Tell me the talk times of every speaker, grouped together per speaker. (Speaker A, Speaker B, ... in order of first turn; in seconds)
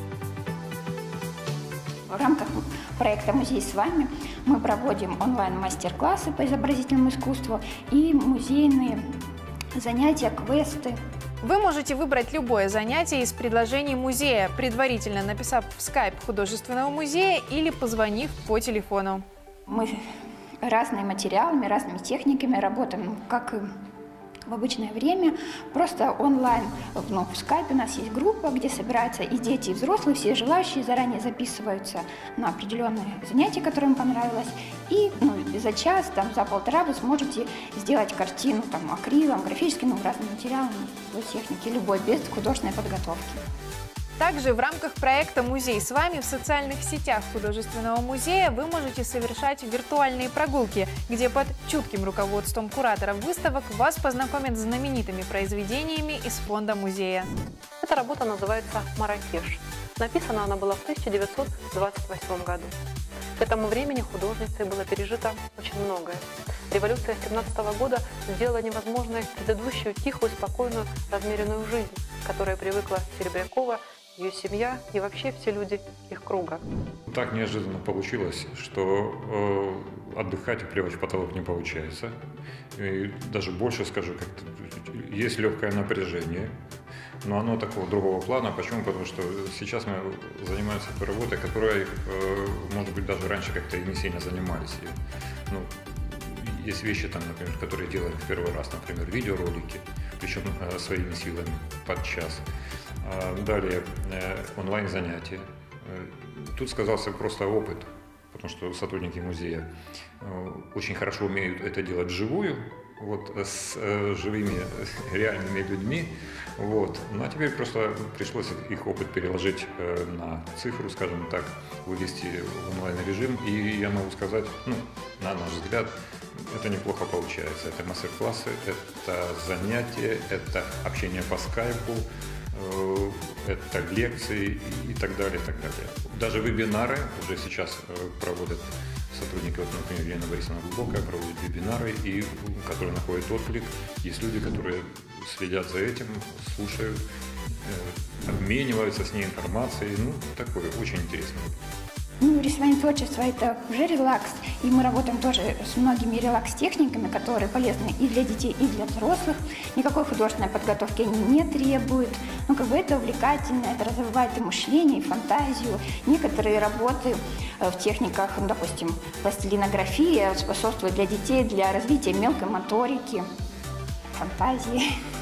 Speaker A: 2.1-9.0, 9.8-11.0, 19.7-19.9, 20.6-23.7, 24.5-43.4, 152.2-173.3, 174.2-174.8
Speaker B: 11.4-19.2, 44.2-57.3
Speaker C: 57.8-62.7, 63.4-76.6
Speaker D: 77.1-82.1, 82.8-86.5, 87.2-95.0, 95.5-102.4, 103.0-109.7, 110.2-147.0, 147.6-151.6